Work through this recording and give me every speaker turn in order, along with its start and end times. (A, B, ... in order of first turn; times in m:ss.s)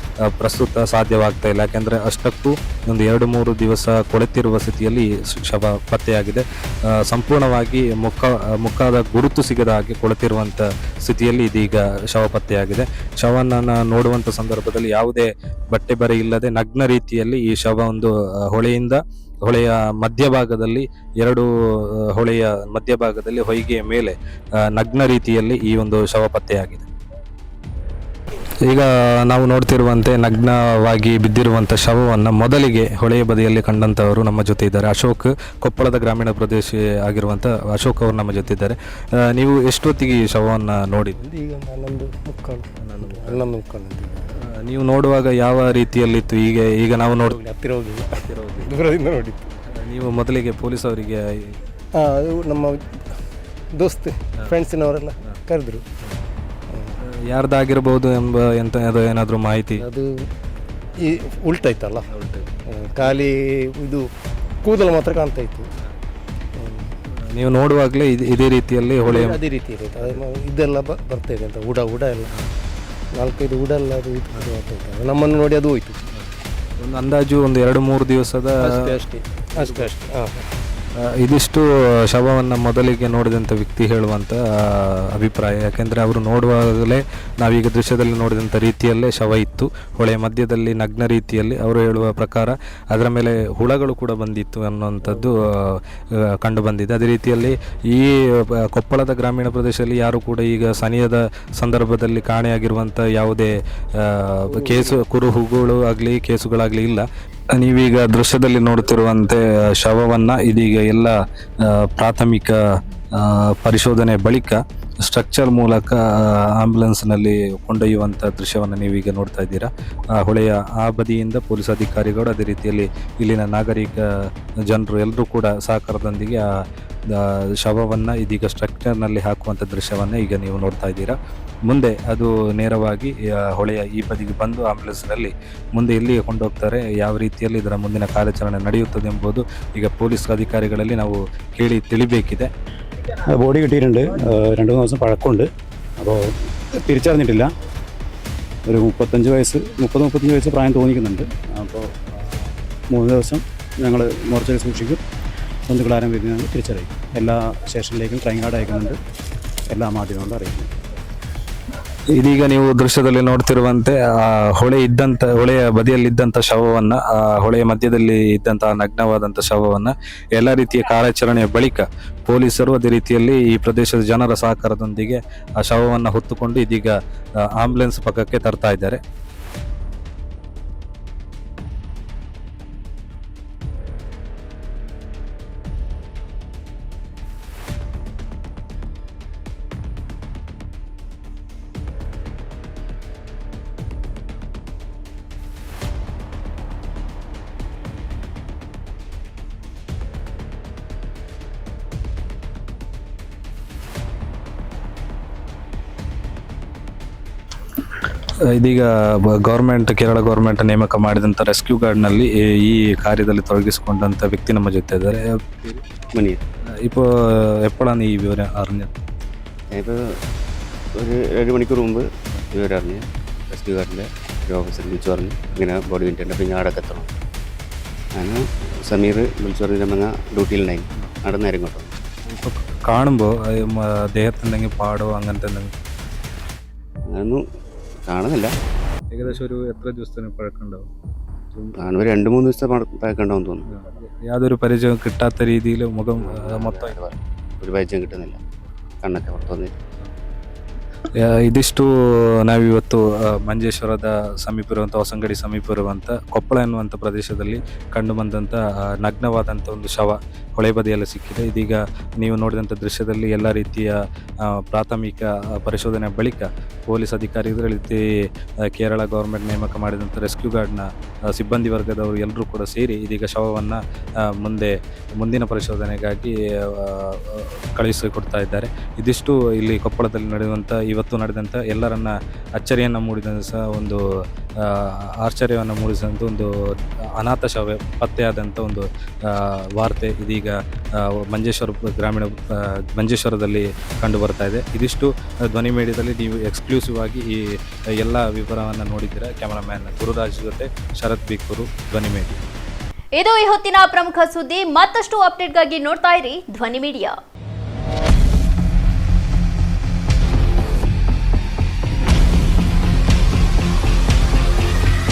0:00.3-0:21.5 A
0:22.1-0:24.1 A
0:24.7-0:26.8 A
0:28.6-0:38.8 A
0:39.3-0:41.2 A
0:41.2-0:44.2 B
0:42.8-0:43.4 A
0:44.6-0:47.4 A
0:47.1-0:49.5 B
0:48.2-0:48.8 A
0:49.8-0:51.5 A
0:52.0-0:52.8 B
0:53.8-0:55.8 B
0:56.7-0:57.0 B
0:57.3-0:59.8 A
0:59.8-1:00.1 B
1:01.0-1:02.1 B
1:02.1-1:02.5 A
1:02.7-1:04.0 B
1:04.6-1:05.7 B
1:06.6-1:06.9 B
1:07.3-1:09.4 A
1:09.0-1:12.3 B
1:13.1-1:16.0 B
1:16.1-1:18.7 A
1:18.6-1:20.4 B
1:19.6-1:19.9 A
1:21.2-1:35.8 A
1:36.4-1:52.6 A
1:44.4-1:45.0 B
1:53.1-2:04.0 A
2:04.7-2:06.4 A
2:07.1-2:11.2 A
2:11.7-2:22.5 A
2:23.3-2:25.5 C
2:26.8-2:27.5 C
2:28.7-2:35.0 C
2:35.7-2:39.0 C
2:39.7-2:40.7 C
2:42.2-2:56.9 A
2:57.5-2:59.0 A
3:28.5-3:35.8 A
3:36.1-3:36.4 D
3:36.9-3:38.9 A
3:39.7-3:40.0 D
3:41.0-3:47.1 D
3:48.2-3:51.9 D
3:52.3-3:55.7 A
3:57.1-3:57.4 D
3:58.0-3:58.5 D
3:59.1-4:00.9 A
4:01.8-4:03.6 D
4:03.7-4:07.0 A
4:06.1-4:08.4 D
4:09.0-4:09.7 D
4:11.2-4:28.0 A
4:28.7-4:44.0 A
4:44.6-4:46.5 A
4:47.2-4:57.4 A
4:58.0-5:02.4 A
5:03.2-5:07.1 E